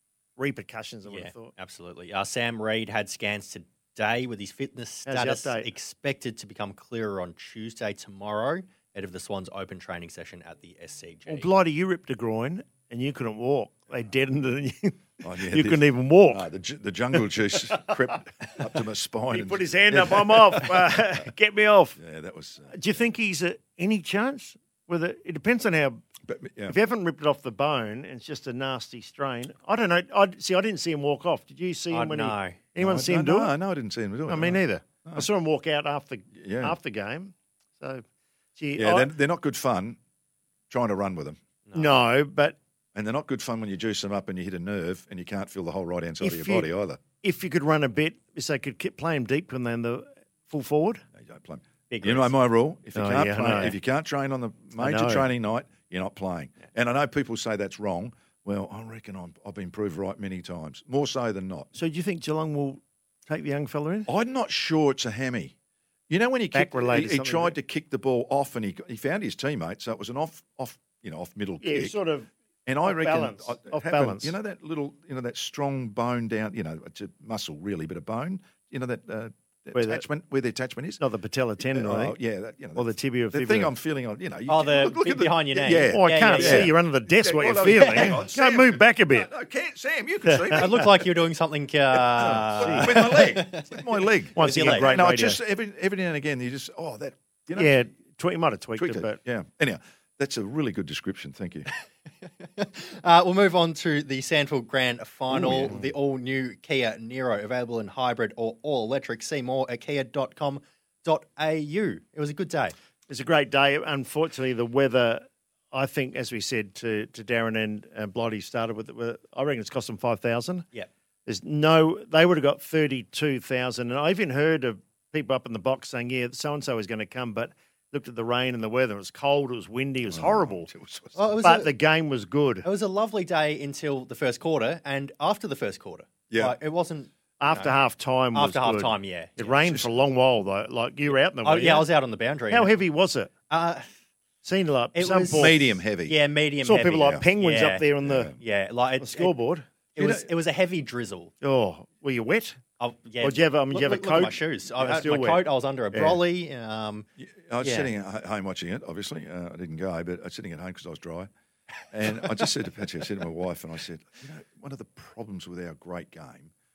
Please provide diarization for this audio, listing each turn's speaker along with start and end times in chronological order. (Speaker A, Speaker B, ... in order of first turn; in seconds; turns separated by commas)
Speaker A: 0.4-1.5, Speaker B: 1.1-11.5, Speaker A: 5.1-5.7, Speaker A: 11.3-16.5, Speaker C: 15.2-21.3, Speaker A: 19.3-22.0, Speaker C: 22.0-22.8, Speaker A: 22.7-26.0, Speaker C: 26.3-26.8, Speaker A: 26.7-33.5, Speaker B: 31.9-32.6, Speaker C: 32.8-35.3, Speaker A: 34.3-38.0, Speaker C: 36.3-36.8, Speaker A: 38.6-39.1, Speaker C: 38.8-40.0, Speaker C: 40.7-41.4, Speaker B: 41.7-42.0, Speaker A: 41.7-42.6, Speaker C: 43.0-47.0, Speaker A: 46.2-46.7, Speaker A: 47.2-51.0, Speaker C: 51.2-61.7, Speaker B: 51.9-52.3, Speaker A: 53.0-53.8, Speaker A: 54.8-55.3, Speaker A: 61.7-64.1, Speaker C: 64.1-65.5, Speaker C: 66.1-72.0, Speaker A: 66.5-67.6, Speaker A: 71.6-72.3, Speaker C: 72.7-81.0, Speaker A: 72.8-74.3, Speaker A: 79.7-80.0, Speaker A: 81.0-82.2, Speaker C: 81.6-90.9, Speaker A: 82.8-83.7, Speaker B: 84.5-86.7, Speaker A: 85.9-89.3, Speaker B: 87.7-88.2, Speaker A: 90.2-90.7, Speaker B: 90.5-95.0, Speaker C: 92.1-97.8, Speaker A: 92.2-93.0, Speaker A: 94.3-95.4, Speaker A: 97.5-99.2, Speaker C: 98.8-101.7, Speaker B: 102.4-112.8, Speaker C: 105.3-105.8, Speaker A: 105.5-105.8, Speaker A: 113.1-120.7, Speaker A: 121.3-130.7, Speaker C: 130.1-131.2, Speaker B: 131.2-131.7, Speaker A: 131.4-132.7, Speaker B: 132.6-137.8, Speaker C: 136.3-136.6, Speaker A: 137.4-141.9, Speaker B: 138.3-139.7, Speaker C: 139.7-139.9, Speaker B: 141.1-142.8, Speaker A: 142.5-143.3, Speaker B: 143.5-143.9, Speaker A: 144.4-145.7, Speaker B: 144.9-149.4, Speaker C: 145.3-146.2, Speaker A: 146.6-148.3, Speaker C: 147.0-147.2, Speaker C: 148.0-148.4, Speaker A: 149.0-149.6, Speaker B: 149.9-151.3, Speaker C: 150.0-150.3, Speaker A: 151.4-152.6, Speaker B: 152.8-157.1, Speaker A: 153.2-156.2, Speaker C: 157.2-161.3, Speaker B: 157.6-157.9, Speaker C: 161.9-166.5